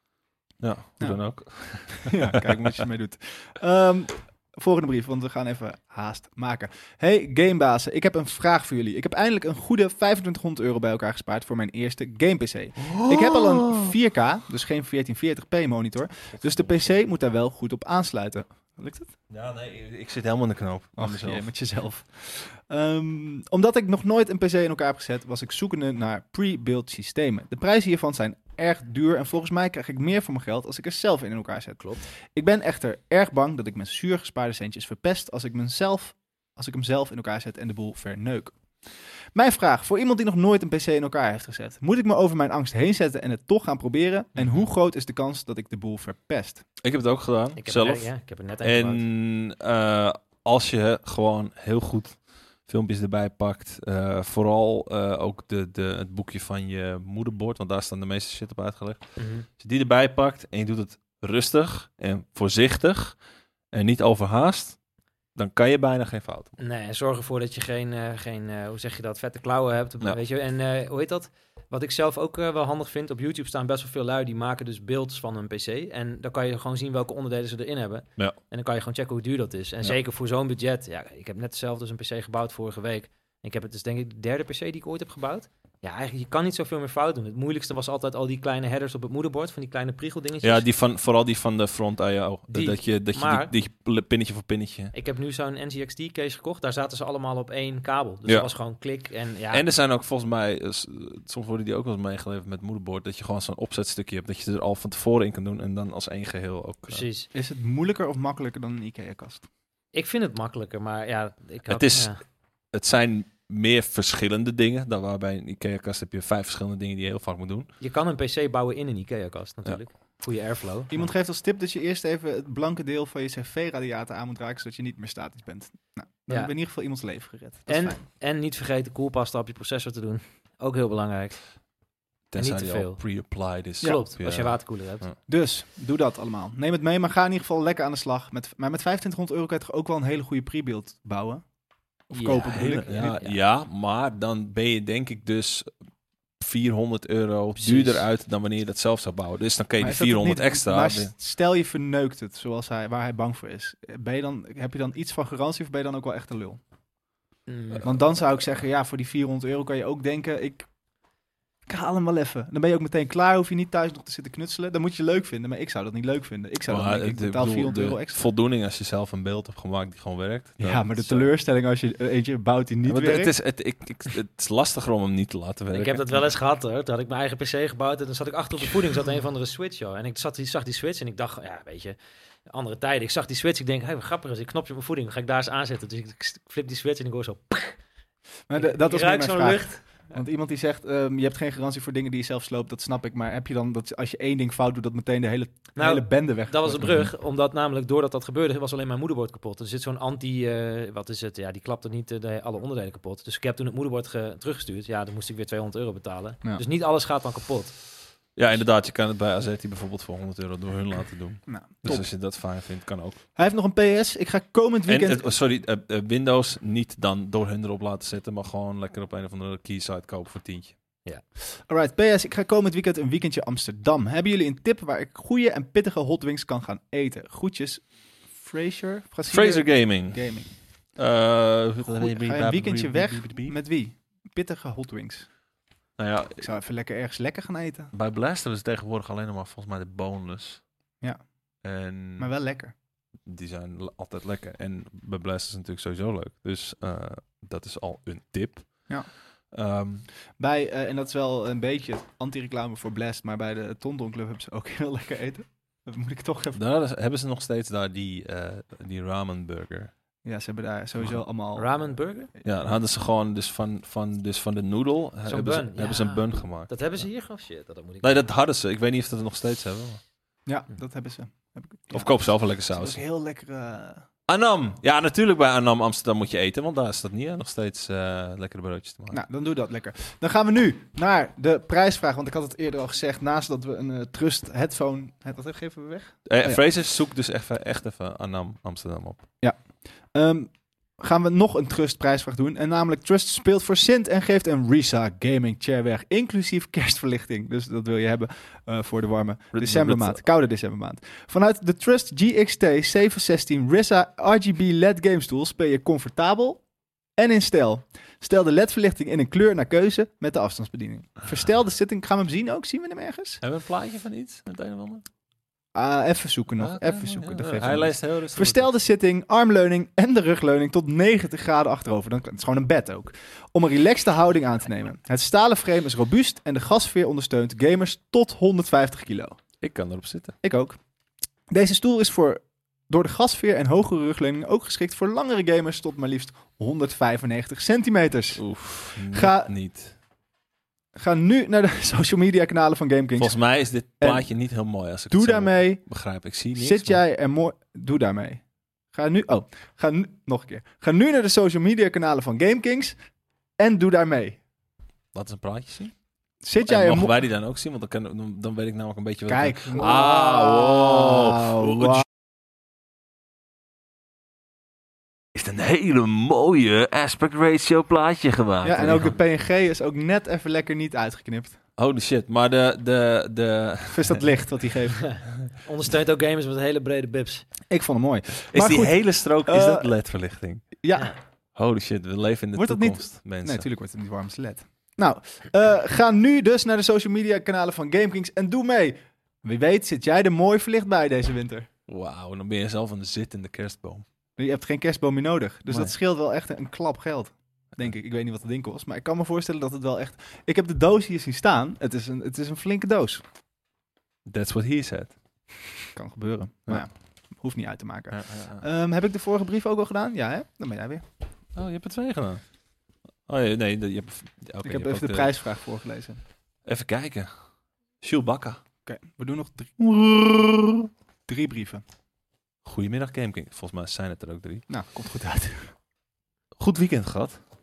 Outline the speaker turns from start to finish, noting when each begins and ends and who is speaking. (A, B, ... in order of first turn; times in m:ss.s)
0:00.6-0:02.5 A
0:01.0-0:19.1 B
0:12.8-0:13.9 A
0:16.4-0:16.9 A
0:19.3-0:21.5 A
0:21.0-0:46.6 B
0:44.4-0:44.6 A
0:46.8-1:03.2 A
0:47.6-0:49.0 C
0:59.2-0:59.5 C
1:03.7-1:04.8 A
1:05.3-1:06.6 A
1:06.6-1:30.6 C
1:30.4-1:34.9 A
1:32.5-1:33.5 C
1:34.9-1:39.6 C
1:39.5-1:47.0 A
1:46.9-1:47.3 C
1:47.3-1:49.5 B
1:49.9-1:52.2 C
1:51.7-1:52.1 A
1:52.7-1:57.7 A
1:57.8-2:01.1 C
2:00.9-2:08.0 B
2:07.7-2:11.4 C
2:12.3-2:15.2 A
2:12.4-2:15.1 C
2:15.2-2:21.4 B
2:22.1-2:23.1 B
2:22.1-2:23.4 C
2:22.5-2:25.7 A
2:26.4-2:31.1 A
2:27.6-2:28.0 C
2:29.8-2:36.6 B
2:37.5-2:37.8 C
2:37.8-2:40.7 B
2:41.7-2:48.2 B
2:46.7-2:51.3 A
2:50.6-2:53.3 B
2:52.8-2:56.3 A
2:55.7-3:07.8 C
3:08.5-3:17.1 B
3:08.6-3:10.2 C
3:15.8-3:27.8 C
3:28.3-3:33.2 A
3:31.4-3:32.1 B
3:33.4-3:35.2 B
3:34.9-3:40.8 A
3:41.7-3:50.9 B
3:49.3-3:53.5 A
3:51.8-3:55.3 B
3:56.0-3:56.5 A
3:56.4-3:57.9 B
3:57.9-4:00.6 A
4:01.0-4:01.5 B
4:01.6-4:02.3 A
4:02.2-4:02.7 B
4:03.2-4:10.1 A
4:08.9-4:09.1 B
4:10.4-4:16.6 B
4:16.5-4:19.9 A
4:20.2-4:22.7 B
4:21.6-4:22.3 C
4:22.4-4:27.1 A
4:25.2-4:28.2 C
4:28.0-4:30.0 A
4:30.4-4:34.1 B
4:31.9-4:33.0 A
4:34.3-4:39.2 A
4:39.1-4:46.6 B
4:46.2-4:49.2 A
4:49.4-5:13.4 B
4:59.5-5:00.2 A
5:13.4-5:15.0 A
5:15.7-5:29.4 B
5:16.6-5:18.7 A
5:29.6-5:30.4 A
5:30.4-5:30.8 B
5:31.5-5:39.5 B
5:38.4-5:40.0 A
5:40.9-5:44.3 B
5:43.2-5:47.0 A
5:45.1-5:45.9 B
5:46.5-5:53.0 B
5:53.6-5:54.4 B
5:55.1-5:56.0 A
5:56.4-5:57.2 B
5:56.6-6:02.0 A
5:59.3-6:02.0 B
6:05.3-6:09.1 A
6:08.6-6:11.6 B
6:11.8-6:14.2 A
6:13.9-6:15.0 B
6:15.0-6:17.5 C
6:17.7-6:19.9 B
6:18.5-6:20.7 A
6:20.8-6:21.1 B
6:21.5-6:23.7 A
6:22.5-6:31.7 B
6:31.9-6:34.0 A
6:34.4-6:43.2 B
6:35.7-6:35.9 A
6:44.2-6:45.2 A
6:45.9-6:51.0 B
6:48.1-6:48.6 A
6:51.5-6:52.4 A
6:53.3-6:55.3 A
6:54.6-6:56.2 B
6:56.6-6:57.4 A
6:58.0-6:58.6 A
6:58.8-6:59.8 B
6:59.8-7:00.9 A
7:01.3-7:01.8 B
7:02.6-7:04.6 A
7:04.7-7:05.7 B
7:06.6-7:07.4 A